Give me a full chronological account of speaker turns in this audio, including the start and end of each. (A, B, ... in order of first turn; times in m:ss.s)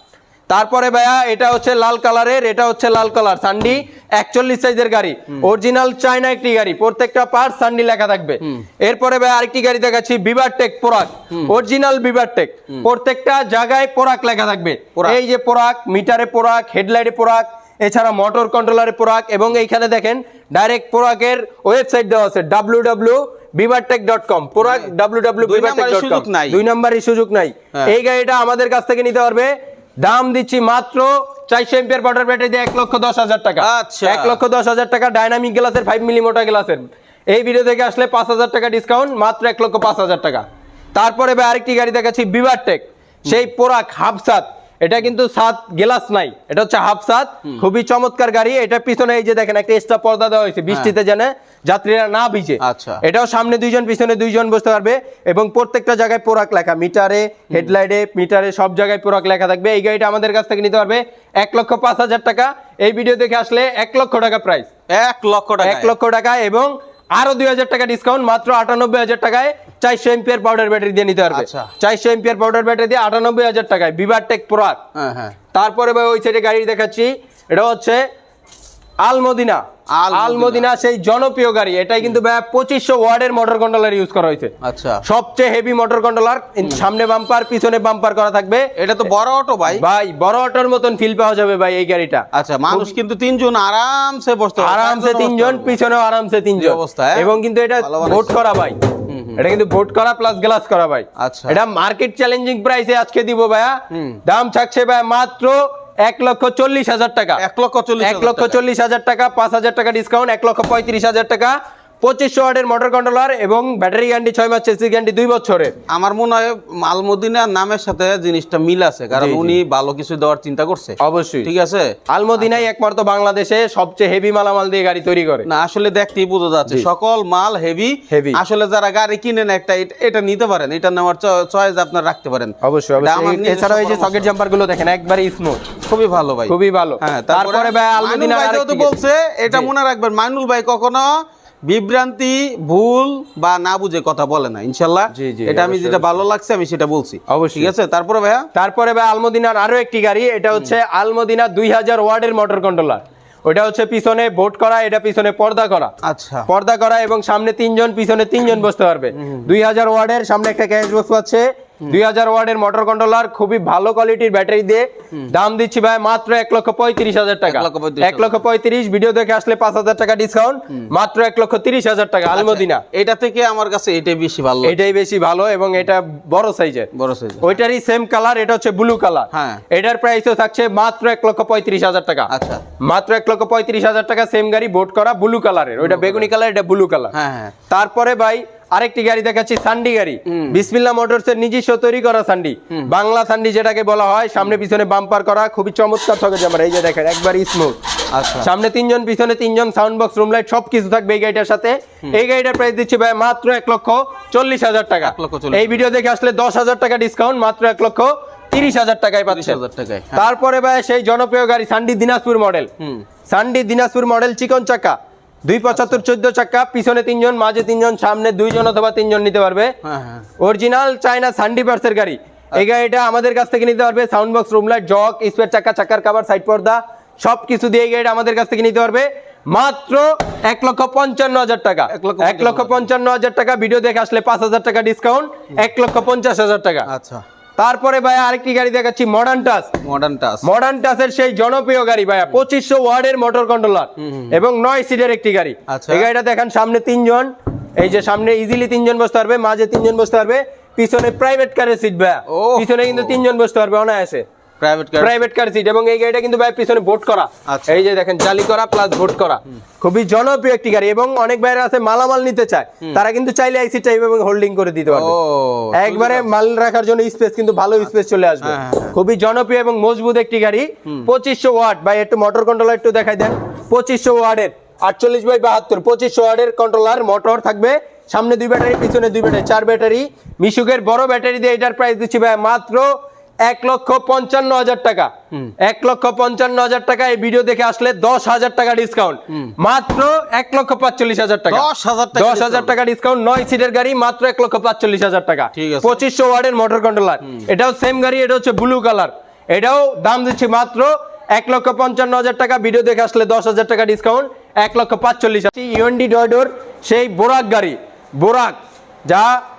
0:00.5-0:29.5 A
0:24.6-0:24.9 B
0:25.4-0:26.6 B
0:30.0-0:40.4 A
0:33.6-0:34.4 B
0:40.9-1:04.7 A
0:52.6-0:53.0 B
1:04.9-1:05.9 B
1:05.6-1:14.8 A
1:11.3-1:11.7 B
1:14.9-1:15.3 B
1:15.5-1:18.0 A
1:19.0-1:24.5 A
1:19.9-1:20.6 B
1:24.6-1:25.0 B
1:25.0-1:28.7 A
1:28.8-1:29.8 B
1:29.7-1:32.9 A
1:32.3-1:35.8 B
1:34.6-1:38.8 A
1:36.6-1:38.3 B
1:39.1-1:39.4 B
1:39.4-1:47.4 A
1:41.2-1:41.6 B
1:43.9-1:44.2 B
1:47.4-1:48.6 B
1:48.0-1:55.7 A
1:55.9-2:02.6 B
1:59.1-1:59.6 A
2:01.0-2:01.5 A
2:02.1-2:05.5 A
2:05.4-2:14.3 B
2:08.1-2:08.4 A
2:12.6-2:15.7 A
2:15.9-2:28.5 B
2:16.5-2:18.9 A
2:25.1-2:26.2 A
2:27.3-2:27.7 A
2:28.5-2:35.9 A
2:36.0-2:36.5 B
2:36.5-2:52.8 A
2:39.2-2:39.5 B
2:47.4-2:48.4 B
2:52.3-2:54.8 B
2:54.6-2:56.9 A
2:56.9-2:57.5 B
2:57.4-3:07.1 A
2:59.3-2:59.6 B
3:02.3-3:02.6 B
3:05.8-3:06.3 B
3:07.1-3:07.5 B
3:07.7-3:17.7 A
3:10.3-3:10.6 B
3:18.1-3:18.5 B
3:18.4-3:29.6 A
3:25.0-3:25.8 B
3:29.3-3:30.2 B
3:30.2-3:32.7 A
3:33.3-3:39.7 A
3:35.7-3:36.0 B
3:39.8-3:40.2 B
3:40.4-3:56.9 A
3:51.9-3:52.9 B
3:56.8-3:57.2 B
3:57.6-3:59.7 A
3:59.8-4:00.4 B
4:00.4-4:14.2 A
4:04.0-4:04.3 B
4:05.7-4:06.1 B
4:12.3-4:13.2 B
4:14.6-4:15.2 B
4:15.0-4:25.2 A
4:17.4-4:17.8 B
4:24.9-4:26.3 B
4:25.7-4:42.9 A
4:28.4-4:28.9 B
4:43.4-5:09.4 A
4:51.5-4:52.7 B
4:55.6-4:56.0 B